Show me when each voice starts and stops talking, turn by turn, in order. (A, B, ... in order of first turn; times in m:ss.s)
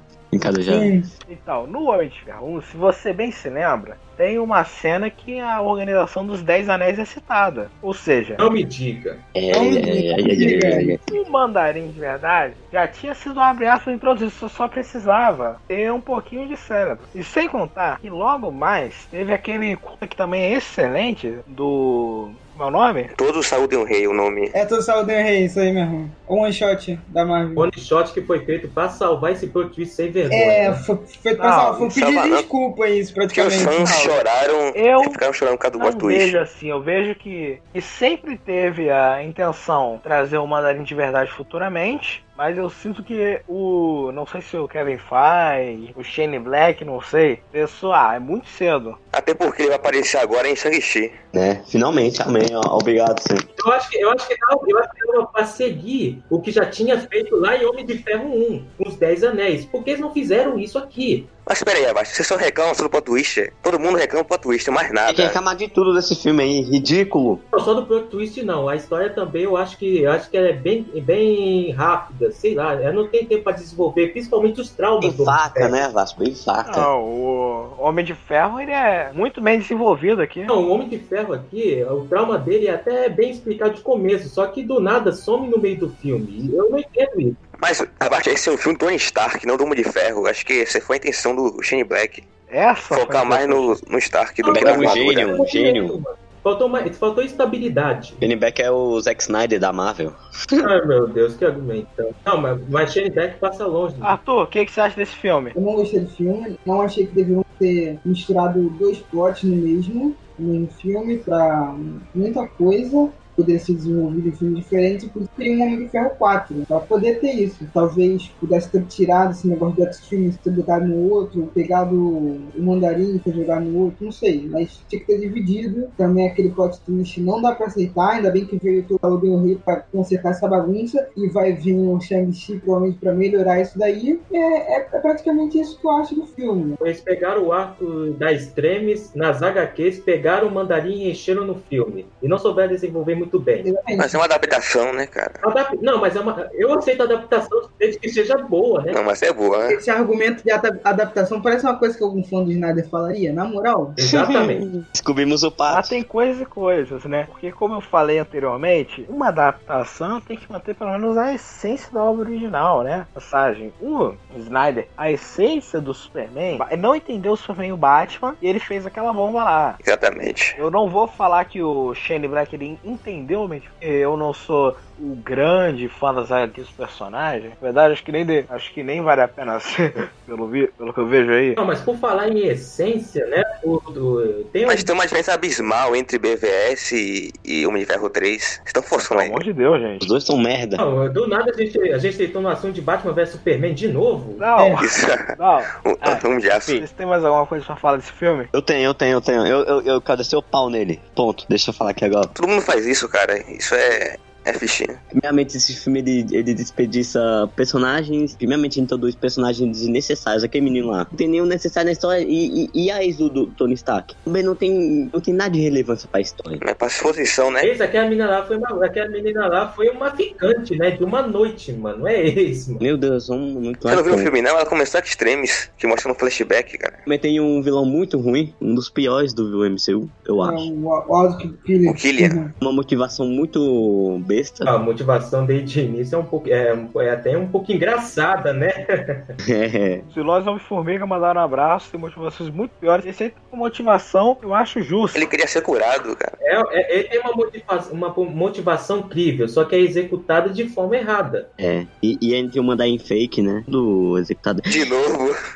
0:00.3-0:00.9 A
0:00.7-0:01.1 B
0:01.3-0:08.4 C
0:08.4-0:09.2 D
0:09.3-0:11.0 A
0:09.5-0:11.0 B
0:11.1-0:23.1 C
0:23.1-0:24.5 E
0:24.5-0:27.7 B
0:27.6-0:30.8 D
0:30.3-0:34.0 B
0:31.4-0:31.9 C
0:31.8-0:32.4 E
0:33.3-0:36.4 E
0:33.8-0:35.2 C
0:35.8-0:49.0 C
0:49.1-0:51.1 E
0:51.3-0:53.4 A
0:53.6-1:01.3 D
1:01.4-1:05.4 E
1:05.1-1:07.4 A
1:07.5-1:15.8 D
1:15.0-1:16.9 A
1:16.6-1:20.5 C
1:20.5-1:27.4 D
1:27.6-1:32.2 E
1:32.5-1:33.8 C
1:32.9-1:35.3 E
1:34.4-1:38.2 D
1:34.5-1:36.0 A
1:38.2-1:40.6 A
1:40.6-1:44.2 D
1:44.0-1:45.5 C
1:45.5-2:16.8 B
2:16.8-2:23.7 D
2:23.6-2:24.2 B
2:24.0-2:25.4 E
2:25.4-2:29.0 D
2:28.9-2:29.8 E
2:29.7-2:34.0 B
2:34.0-2:34.6 D
2:34.0-2:36.0 A
2:35.7-2:49.8 C
2:49.8-2:50.6 E
2:50.6-3:01.6 C
3:01.6-3:04.9 D
3:04.6-3:09.4 E
3:09.0-3:10.1 C
3:10.0-3:10.8 A
3:10.8-3:14.4 D
3:14.4-3:18.5 C
3:14.8-3:16.8 E
3:18.5-3:22.3 A
3:22.3-3:25.0 E
3:25.1-3:36.6 A
3:36.6-3:37.7 E
3:37.6-3:42.8 D
3:42.8-3:44.3 A
3:43.9-3:47.0 E
3:47.0-3:50.6 A
3:50.4-3:52.5 B
3:51.8-3:52.4 E
3:52.6-3:54.7 A
3:54.6-3:59.2 D
3:59.5-4:00.0 A
4:00.1-4:05.3 C
4:05.1-4:06.3 E
4:06.4-4:11.5 D
4:11.6-4:14.7 A
4:14.7-4:15.3 E